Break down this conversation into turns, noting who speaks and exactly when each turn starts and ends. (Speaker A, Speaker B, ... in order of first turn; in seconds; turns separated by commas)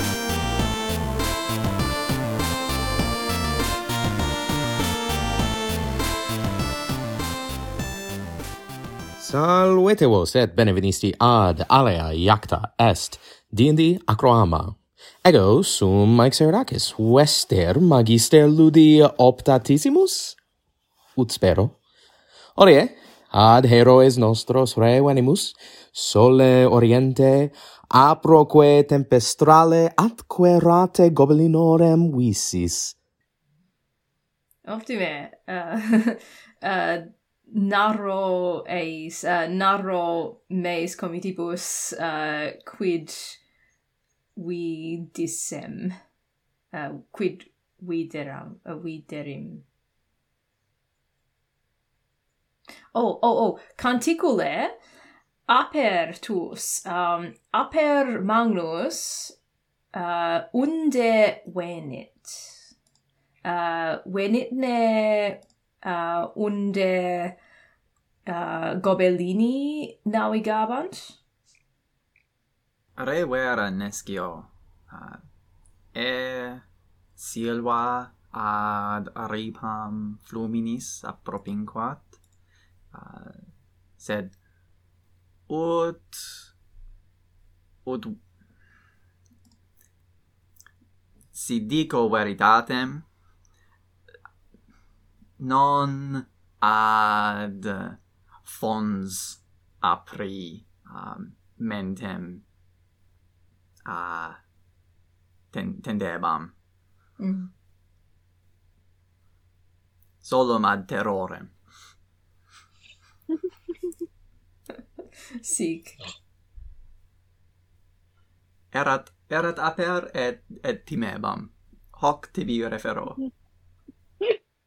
Speaker A: 9.2-20.4, Speaker A: 21.2-21.8, Speaker A: 22.6-33.0, Speaker B: 34.7-43.4, Speaker B: 44.4-46.0, Speaker B: 46.7-49.6, Speaker B: 52.9-54.8, Speaker B: 55.5-59.4, Speaker B: 59.9-62.5, Speaker B: 63.4-67.4, Speaker B: 68.3-71.2, Speaker C: 73.0-75.2, Speaker C: 75.9-76.7, Speaker C: 77.2-82.2, Speaker C: 82.9-83.4, Speaker C: 84.0-84.3, Speaker C: 85.5-86.5, Speaker C: 87.8-88.2, Speaker C: 91.3-93.1, Speaker C: 95.4-102.5, Speaker C: 103.8-104.4, Speaker C: 105.5-106.5, Speaker B: 107.2-107.5, Speaker C: 110.2-111.6, Speaker B: 115.4-116.0, Speaker C: 118.7-123.2